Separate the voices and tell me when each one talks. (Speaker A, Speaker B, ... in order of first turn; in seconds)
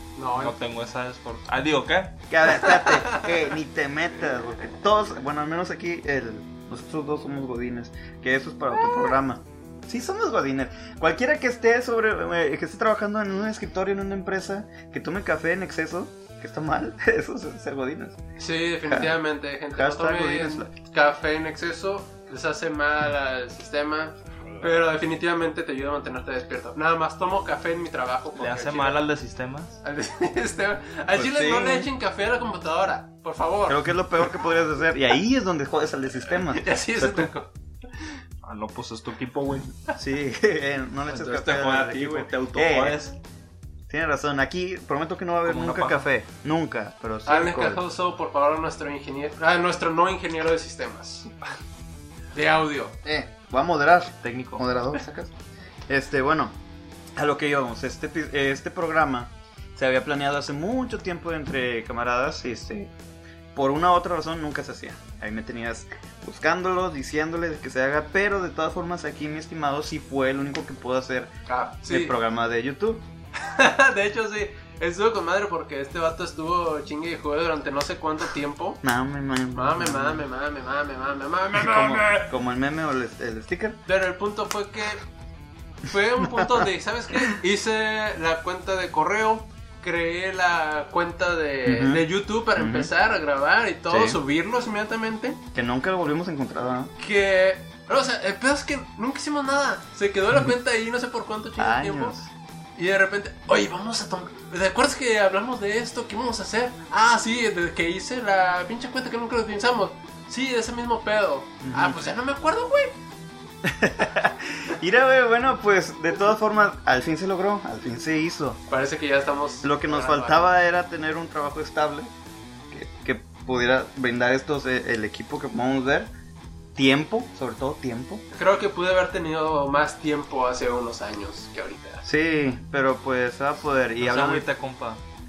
Speaker A: 0.1-0.6, 2.7-3.3, 18.4-29.0, 29.8-34.3, 36.5-37.5, 47.2-51.3, 52.3-53.0, 71.5-72.1, 73.4-78.8, 79.5-82.3, 83.8-85.0, 85.8-95.4, 97.0-102.2, 102.8-112.9, 118.7-120.5, 128.3-132.0
Speaker B: 0.3-2.2, 28.3-29.8, 38.4-40.0, 41.1-43.1, 45.4-46.0, 54.2-54.6, 134.0-135.0
Speaker C: 2.3-18.2, 18.9-19.2, 19.7-20.7, 31.1-31.9, 33.7-37.3, 40.0-43.0, 43.9-47.8, 53.0-55.3, 55.9-56.5, 57.1-62.9, 63.5-71.3, 71.9-73.0, 78.8-80.2, 81.5-83.8, 86.2-86.7, 91.7-92.0, 92.5-92.9, 93.9-94.2, 95.5-96.9, 101.6-102.3, 111.6-112.0, 113.6-118.6, 119.6-122.1, 122.7-126.1, 126.8-128.2, 132.0-134.5